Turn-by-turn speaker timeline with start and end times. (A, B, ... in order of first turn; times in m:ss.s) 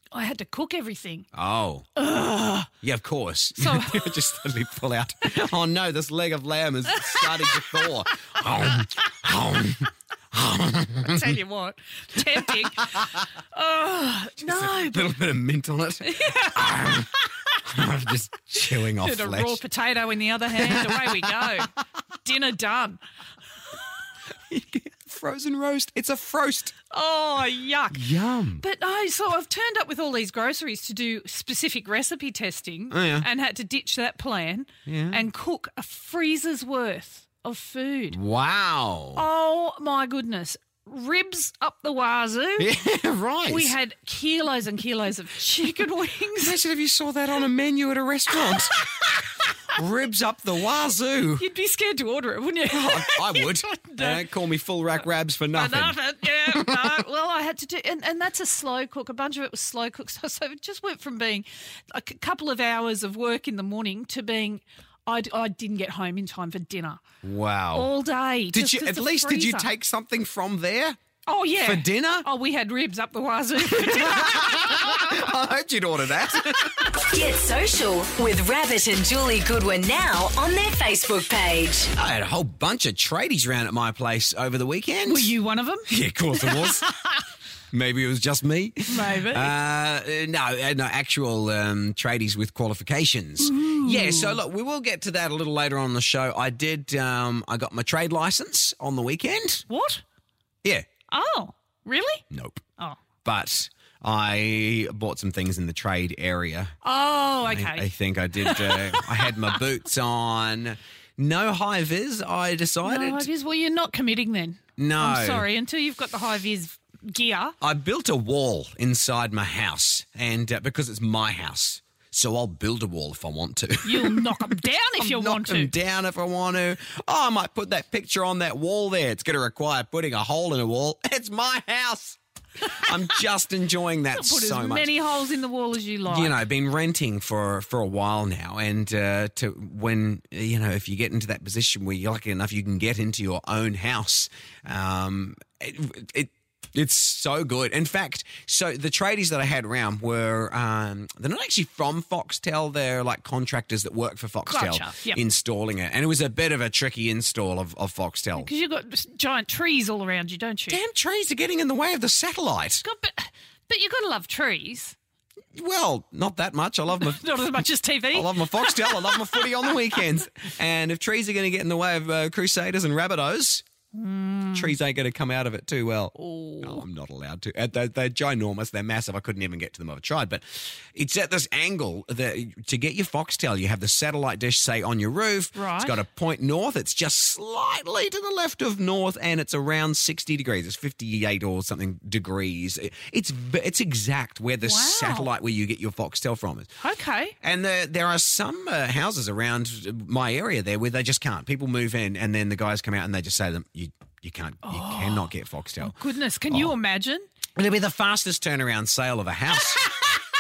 0:00.1-0:01.2 A
0:01.3-0:01.9 B
0:02.0-0:02.7 A
0:02.8-0:11.4 B
0:03.6-0:04.2 A
0:06.9-0:07.8 A
0:11.0-0:15.2 A
0:12.2-0:13.2 B
0:14.4-0:19.6 B
0:16.0-0:17.6 A
0:18.6-0:23.0 A
0:20.5-0:21.7 B
0:24.5-0:26.7 B
0:26.9-0:38.2 A
0:27.9-0:28.6 B
0:32.9-0:33.3 B
0:34.8-0:35.2 B
0:38.1-0:39.2 B
0:39.2-0:42.7 A
0:42.6-0:43.8 B
0:43.5-0:46.6 A
0:46.4-0:49.2 B
0:49.7-0:51.5 B
0:51.4-0:54.2 A
0:52.6-0:57.0 B
0:55.5-1:07.0 A
1:07.2-1:07.9 B
1:07.7-1:09.7 A
1:08.5-1:11.0 B
1:11.2-1:15.2 A
1:11.6-1:12.3 B
1:13.6-1:17.0 B
1:17.0-1:21.9 C
1:21.9-1:25.3 B
1:25.0-1:27.1 A
1:25.9-1:26.9 B
1:27.7-1:39.7 B
1:28.9-1:29.6 A
1:33.4-1:34.4 A
1:39.7-1:40.0 A
1:41.1-1:42.2 A
1:42.3-1:42.6 B
1:43.2-1:46.7 B
1:46.8-1:49.5 A
1:47.4-1:53.3 B
1:52.8-1:57.5 A
1:54.8-1:55.5 B
1:57.6-2:15.0 B
2:03.8-2:05.7 A
2:14.1-2:16.4 A
2:16.0-2:38.5 B
2:34.5-2:35.2 A
2:38.4-2:40.8 A
2:40.7-2:42.8 B
2:42.8-2:45.0 A
2:45.5-2:53.6 B
2:47.0-2:50.0 A
2:53.9-2:54.7 A
2:54.5-3:16.7 B
2:56.1-2:56.8 A
3:05.5-3:06.0 A
3:14.6-3:15.3 A
3:16.8-3:17.3 A
3:17.4-3:26.7 B
3:24.6-3:27.2 A
3:27.6-3:30.0 B